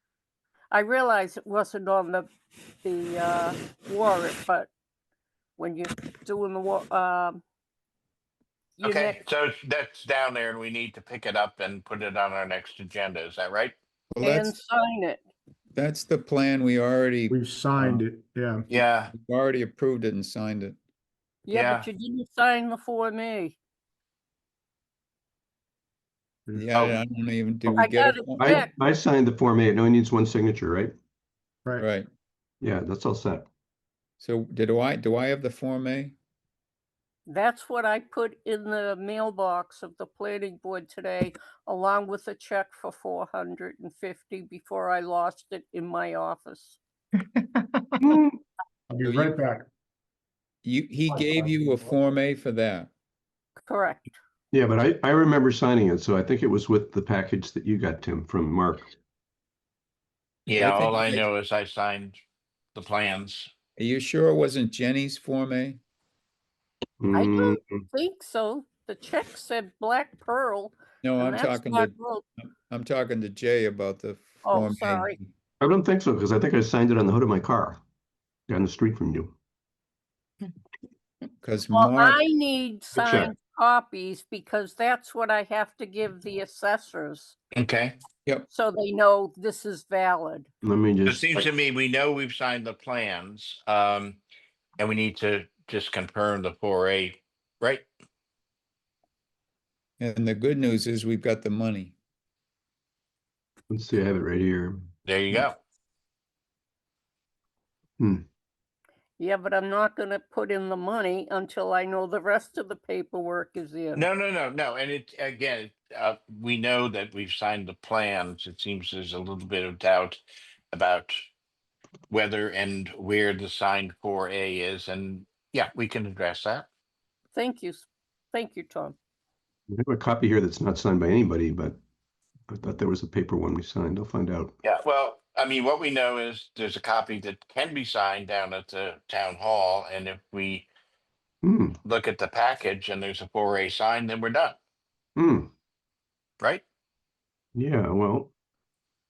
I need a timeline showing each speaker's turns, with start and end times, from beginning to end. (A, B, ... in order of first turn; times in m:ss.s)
0:00.7-0:02.3 A
0:02.8-0:04.7 A
0:05.6-0:07.4 A
0:08.8-0:09.2 A
0:08.8-0:13.7 B
0:14.1-0:14.5 C
0:14.2-0:15.2 A
0:15.7-0:18.0 C
0:17.3-0:18.6 D
0:18.7-0:19.1 B
0:19.1-0:20.8 C
0:21.5-0:23.6 A
0:21.5-0:21.9 B
0:26.5-0:26.8 D
0:26.5-0:28.6 C
0:27.7-0:28.7 A
0:28.4-0:30.9 E
0:31.8-0:32.1 C
0:32.6-0:33.5 E
0:34.2-0:36.1 C
0:37.3-0:46.8 A
0:48.0-0:48.4 E
0:48.9-0:49.7 D
0:49.0-0:49.4 C
0:50.6-0:52.9 C
0:51.1-0:51.8 D
0:53.6-0:54.1 A
0:54.5-0:58.9 E
1:00.4-1:02.2 B
1:00.6-1:01.2 C
1:02.7-1:03.5 B
1:03.8-1:05.8 C
1:07.0-1:07.8 E
1:07.1-1:12.2 A
1:11.0-1:11.9 C
1:12.5-1:15.3 C
1:14.4-1:15.2 A
1:15.6-1:17.8 E
1:18.5-1:19.4 E
1:21.4-1:22.2 C
1:21.7-1:27.4 A
1:22.9-1:23.3 E
1:27.5-1:28.0 B
1:28.5-1:30.5 A
1:30.6-1:31.5 E
1:31.0-1:34.2 B
1:34.8-1:37.9 B
1:40.0-1:41.9 C
1:43.7-1:44.9 E
1:45.0-1:45.6 B
1:49.2-1:54.0 A
1:53.9-2:00.2 B
2:00.7-2:01.2 B
2:02.1-2:06.7 B
2:07.3-2:09.0 A
2:09.7-2:11.8 E
2:12.5-2:14.5 E
2:14.6-2:20.7 B
2:21.4-2:21.8 E
2:21.8-2:24.6 B
2:25.2-2:25.5 E
2:27.5-2:28.3 E